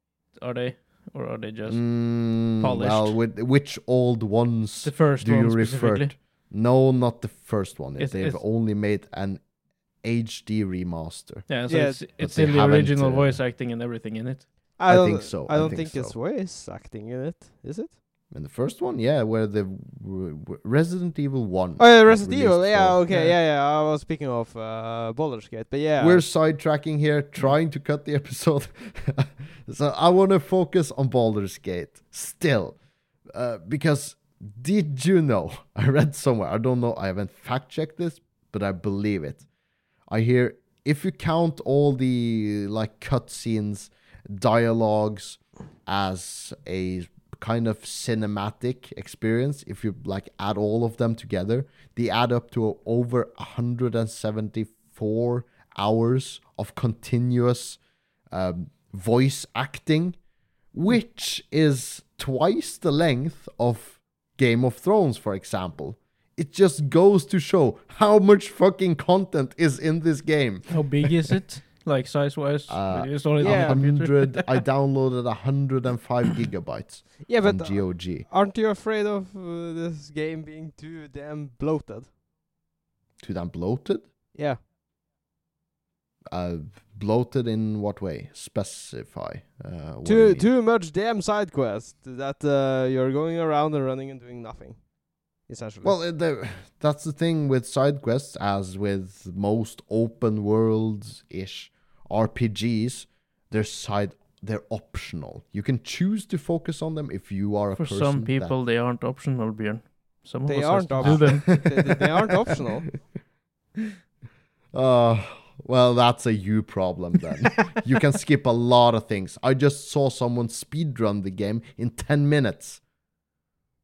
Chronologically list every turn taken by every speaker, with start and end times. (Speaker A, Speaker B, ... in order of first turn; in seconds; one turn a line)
Speaker A: 0.2-3.2
Speaker B: 1.6-13.4
Speaker A: 4.8-6.1
Speaker A: 8.0-8.4
Speaker A: 11.5-14.6
Speaker C: 11.7-12.0
Speaker C: 14.8-18.0
Speaker B: 14.8-16.1
Speaker B: 18.3-23.0
Speaker C: 21.8-26.3
Speaker A: 23.1-23.4
Speaker B: 26.0-39.5
Speaker B: 40.1-60.2
Speaker B: 60.7-71.2
Speaker A: 70.7-74.6
Speaker B: 72.7-78.3
Speaker C: 73.4-73.8
Speaker C: 77.2-82.1
Speaker B: 83.2-84.1
Speaker C: 84.3-84.6
Speaker B: 86.3-90.5
Speaker C: 90.0-96.0
Speaker B: 95.8-108.5
Speaker A: 107.8-111.8
Speaker C: 110.5-113.0
Speaker B: 111.0-112.0
Speaker B: 114.7-122.8